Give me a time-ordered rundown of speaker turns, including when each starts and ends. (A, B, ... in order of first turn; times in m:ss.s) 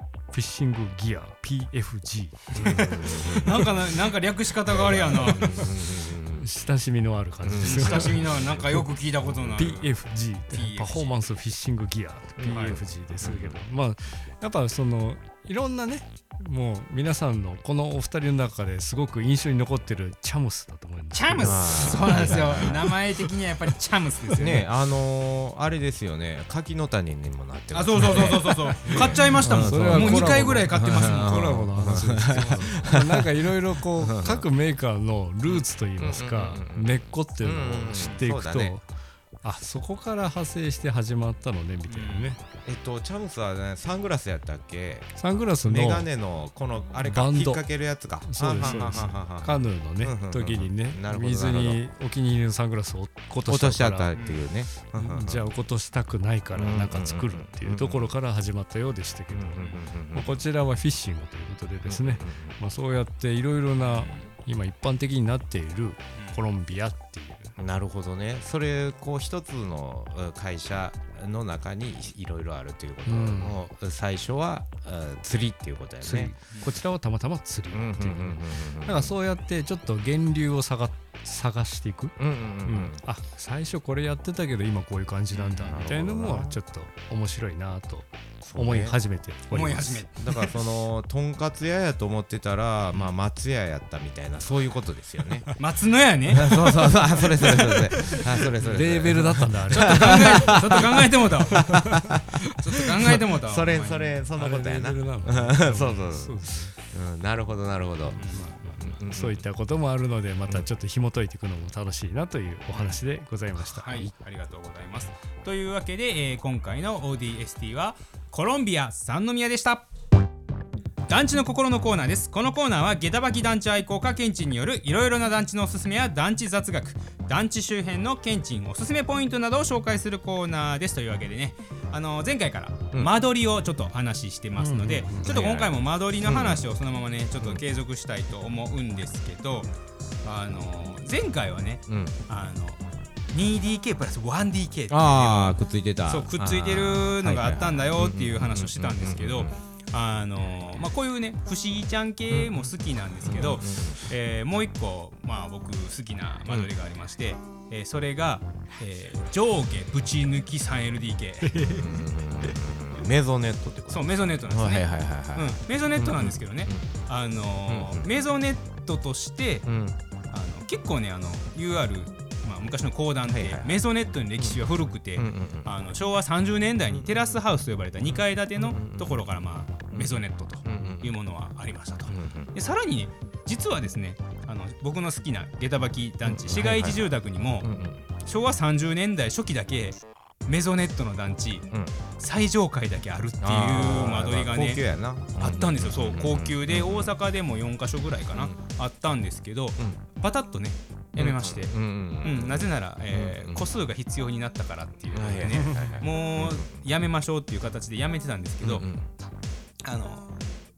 0:00.3-0:02.6 A
0:02.5-0:03.8 B
0:02.5-0:05.6 C
0:04.7-0:06.5 B
0:05.4-0:05.7 A
0:06.3-0:08.9 A
0:07.4-0:08.6 B
0:07.6-0:09.9 C
0:09.2-0:09.5 B
0:09.5-0:22.9 A
0:10.5-0:11.1 C
0:12.4-0:13.6 B
0:12.5-0:12.8 C
0:21.1-0:24.7 C
0:21.4-0:22.9 B
0:24.4-0:34.5 B
0:27.7-0:31.4 C
0:27.9-0:38.8 A
0:32.3-0:32.6 C
0:36.0-0:38.7 B
0:37.9-0:38.2 C
0:39.4-0:42.4 A
0:41.9-0:42.4 C
0:42.6-0:45.1 B
0:45.2-0:46.1 A
0:45.6-0:51.8 B
0:47.0-0:54.1 A
0:48.6-0:48.9 C
0:53.4-0:55.5 B
0:54.1-0:54.4 C
0:54.8-1:07.5 A
0:56.5-0:58.2 B
0:59.3-1:00.4 B
1:01.8-1:02.6 B
1:03.8-1:04.3 C
1:07.6-1:16.3 B
1:13.0-1:13.6 A
1:16.0-1:30.5 A
1:17.7-1:19.1 B
1:22.2-1:23.0 B
1:25.3-1:25.8 C
1:25.6-1:26.6 B
1:28.4-1:29.0 B
1:29.5-1:30.1 C
1:30.2-1:35.5 B
1:35.6-1:36.5 C
1:36.3-1:49.4 B
1:36.5-1:42.0 A
1:39.7-1:41.6 C
1:42.6-1:44.2 C
1:44.3-1:46.7 A
1:48.1-1:54.1 A
1:48.2-1:48.7 C
1:52.7-1:53.0 C
1:53.6-1:59.9 C
2:01.1-2:19.7 C
2:14.5-2:15.3 A
2:15.2-2:16.7 B
2:20.2-2:22.8 C
2:21.9-2:22.2 B
2:23.3-2:41.9 C
2:24.9-2:29.6 B
2:32.3-2:34.0 B
2:41.6-2:42.0 A
2:41.6-2:46.8 B
2:43.9-2:49.6 C
2:47.7-2:48.1 B
2:49.6-2:50.0 B
2:50.3-3:07.7 C
2:53.2-2:53.8 B
2:54.4-2:55.7 B
2:56.9-2:57.4 B
2:58.1-2:59.2 B
2:59.9-3:01.1 B
3:02.1-3:02.5 B
3:06.2-3:08.0 B
3:08.2-3:11.7 C
3:12.2-3:14.8 C
3:13.4-3:17.2 B
3:15.4-3:28.9 C
3:18.3-3:18.6 B
3:21.2-3:23.7 B
3:25.1-3:26.8 B
3:25.6-3:26.0 A
3:28.6-3:29.1 B
3:29.8-3:30.4 C